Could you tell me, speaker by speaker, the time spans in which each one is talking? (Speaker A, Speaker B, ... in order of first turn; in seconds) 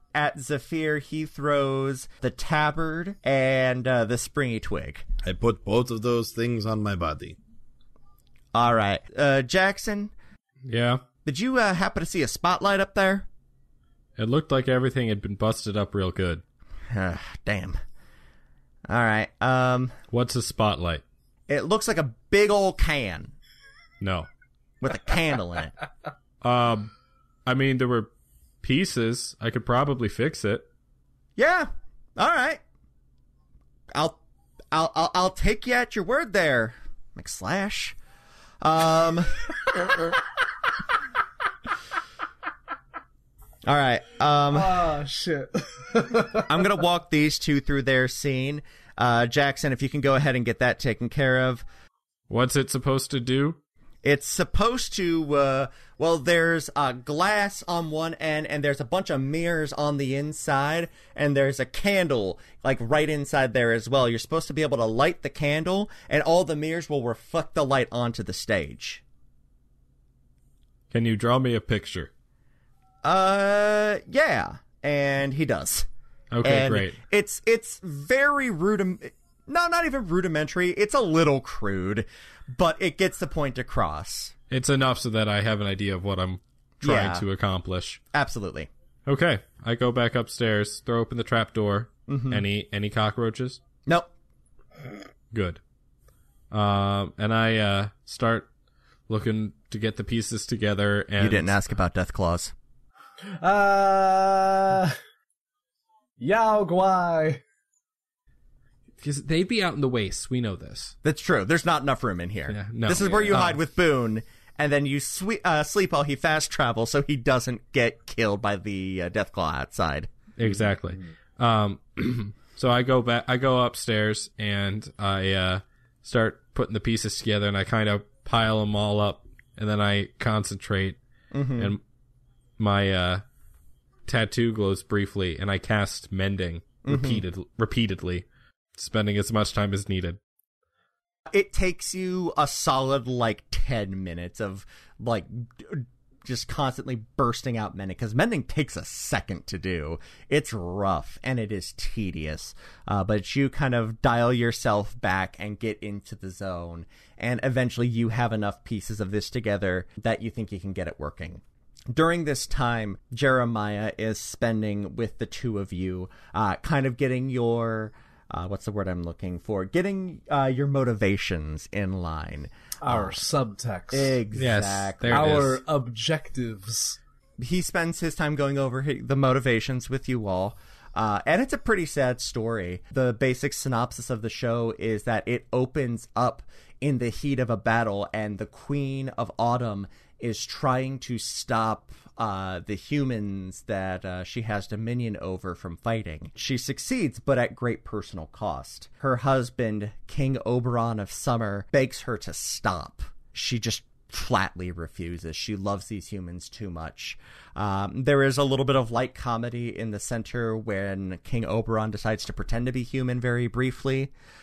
Speaker A: 0.1-5.0, 8.5-10.1, 11.2-13.3, 16.9-17.8, 18.9-20.0, 21.5-23.4, 24.8-25.7, 31.4-32.6, 33.9-34.2, 34.7-38.0, 38.6-39.5, 43.6-44.9, 46.5-51.6, 54.0-69.0, 73.0-75.8, 76.4-84.3, 86.8-87.2, 88.1-88.7, 92.1-92.4, 101.2-102.5, 111.0-120.1, 131.3-131.7, 136.8-137.2, 141.3-173.2, 173.9-175.4, 177.4-214.1
Speaker B: 5.2-7.4
Speaker C: 10.7-11.0, 14.2-16.4, 20.1-21.0, 24.0-24.3, 26.4-26.9, 27.4-28.1, 28.6-30.6, 52.3-53.6, 70.9-72.1, 76.3-77.0, 84.5-88.0, 89.0-93.6, 95.3-95.6, 96.5-98.5, 99.1-101.6, 109.0-110.9, 112.5-113.6, 120.4-131.0, 132.6-133.2, 134.1-140.2, 174.3-175.6
Speaker D: 44.5-46.5, 103.2-105.0, 106.2-107.4, 113.0-113.5, 172.8-174.2, 175.1-177.0